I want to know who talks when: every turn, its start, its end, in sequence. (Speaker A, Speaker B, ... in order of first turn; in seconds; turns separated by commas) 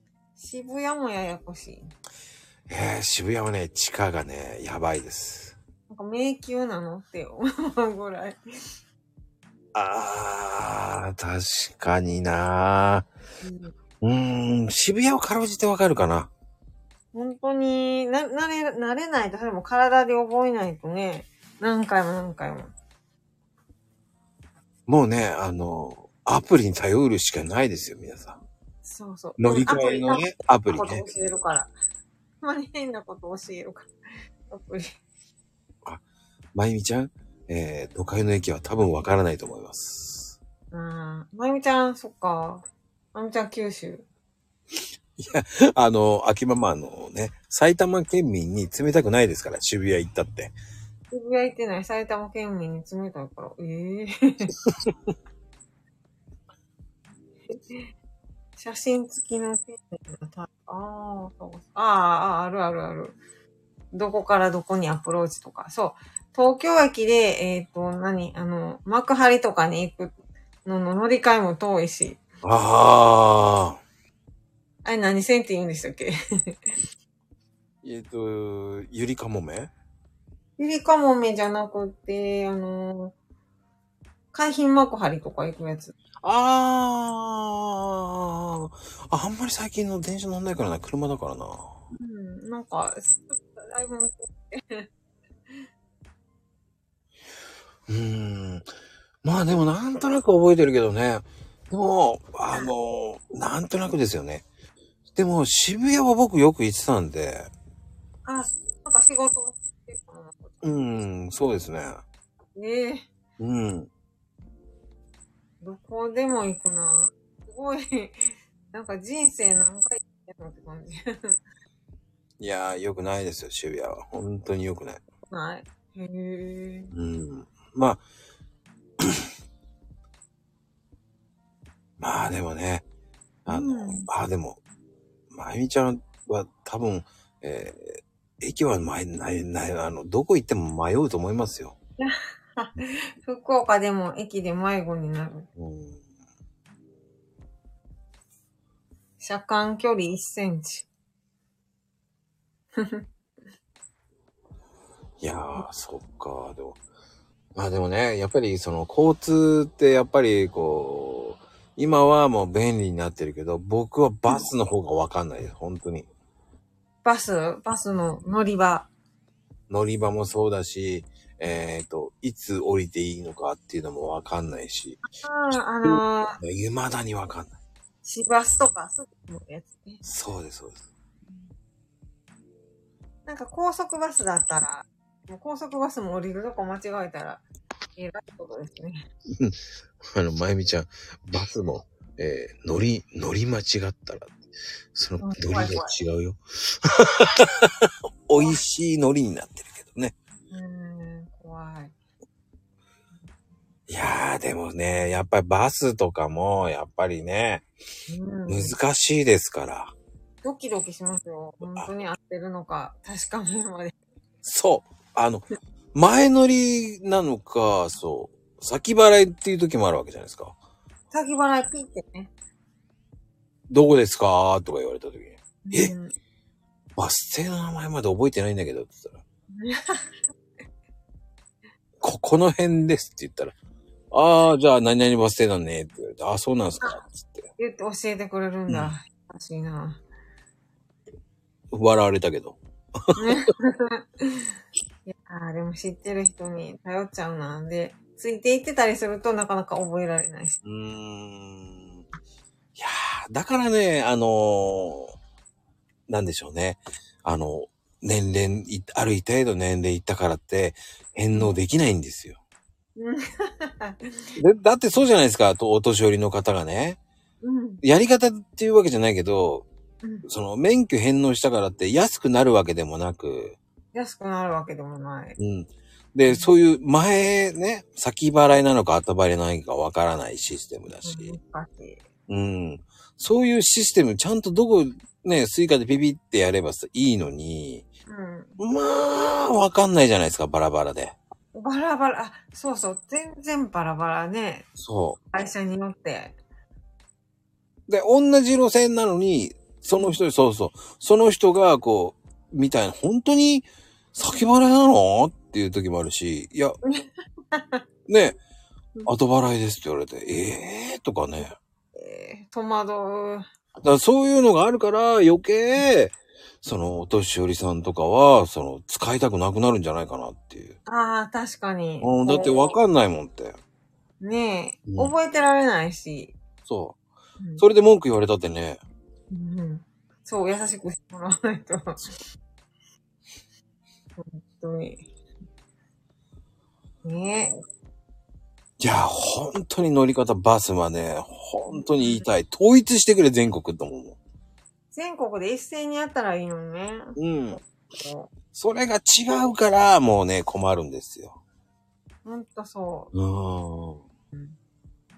Speaker A: 0.4-1.9, Speaker B: 2.7-5.5, Speaker A: 5.9-8.4, Speaker B: 9.7-13.1, Speaker A: 13.4-13.7, Speaker B: 14.0-16.3, Speaker A: 17.1-22.7, Speaker B: 24.9-28.4, Speaker A: 28.8-31.7, Speaker B: 29.4-31.1, Speaker A: 32.4-33.9, Speaker A: 34.5-34.9, Speaker B: 36.5-40.4, Speaker A: 40.7-44.0, Speaker B: 45.2-50.5, Speaker A: 51.1-54.5, Speaker B: 54.6-54.9, Speaker A: 57.5-57.8, Speaker A: 58.6-63.2, Speaker A: 63.9-70.1, Speaker A: 70.6-72.2, Speaker B: 72.4-73.8, Speaker A: 74.8-76.7, Speaker B: 77.8-79.7, Speaker A: 80.6-83.1, Speaker A: 84.3-85.9, Speaker B: 86.2-91.7, Speaker A: 91.9-94.9, Speaker B: 97.9-98.7, Speaker B: 99.2-104.4, Speaker B: 105.1-107.5, Speaker A: 108.2-110.6, Speaker B: 110.6-112.0, Speaker A: 112.5-113.1, Speaker B: 113.4-113.9, Speaker A: 115.6-118.2, Speaker A: 118.7-121.4, Speaker B: 122.4-125.0, Speaker A: 125.3-126.9, Speaker B: 126.9-128.0, Speaker B: 129.0-129.3, Speaker B: 132.0-132.8, Speaker A: 133.5-134.1, Speaker B: 133.5-134.6, Speaker B: 135.3-141.7, Speaker A: 142.0-145.5, Speaker B: 145.6-146.0, Speaker A: 149.2-150.9, Speaker A: 152.8-153.1, Speaker B: 155.2-156.8, Speaker B: 157.5-166.1, Speaker A: 167.0-168.9, Speaker B: 169.7-175.0, Speaker A: 175.1-176.4, Speaker B: 175.8-177.6, Speaker A: 178.0-180.0, Speaker B: 180.0-180.8, Speaker A: 183.3-187.4, Speaker A: 188.0-189.0, Speaker B: 189.3-189.6, Speaker B: 190.1-194.3, Speaker B: 194.9-200.1, Speaker A: 195.2-196.0, Speaker A: 200.5-201.9, Speaker B: 203.9-207.6, Speaker A: 208.1-208.8, Speaker B: 208.5-209.9, Speaker A: 210.4-213.9, Speaker B: 214.4-220.5, Speaker A: 221.1-222.3, Speaker B: 223.7-225.9, Speaker A: 225.6-226.1, Speaker B: 226.9-229.2, Speaker A: 229.6-230.0, Speaker B: 232.0-233.5, Speaker B: 234.1-237.5, Speaker A: 237.6-240.0, Speaker B: 241.7-243.2, Speaker A: 243.2-244.5, Speaker A: 245.1-250.6, Speaker B: 250.6-252.0, Speaker B: 252.8-255.1, Speaker B: 256.1-262.4, Speaker A: 261.3-261.6, Speaker A: 262.9-264.3, Speaker B: 264.4-267.0, Speaker A: 267.4-267.8, Speaker B: 267.8-269.6, Speaker B: 270.2-273.6, Speaker A: 273.9-275.4, Speaker B: 275.4-281.4, Speaker A: 281.0-282.0, Speaker B: 282.3-287.9, Speaker A: 288.1-288.6, Speaker B: 288.6-291.1, Speaker A: 291.5-294.7, Speaker B: 294.8-295.2, Speaker A: 295.3-296.4, Speaker B: 297.9-306.8, Speaker A: 306.8-307.8, Speaker B: 308.1-308.4, Speaker B: 309.1-311.6, Speaker A: 311.9-313.4, Speaker B: 313.8-320.8, Speaker A: 320.9-322.8, Speaker B: 322.0-323.6, Speaker A: 324.2-326.3, Speaker B: 324.9-325.1, Speaker B: 326.6-327.0, Speaker B: 327.6-328.8, Speaker A: 329.3-332.1, Speaker A: 334.2-335.1, Speaker A: 337.0-337.6, Speaker B: 338.8-344.2, Speaker A: 341.7-342.2, Speaker A: 344.9-348.3, Speaker B: 347.2-347.6, Speaker B: 348.5-351.4, Speaker A: 352.2-353.1, Speaker B: 353.1-354.0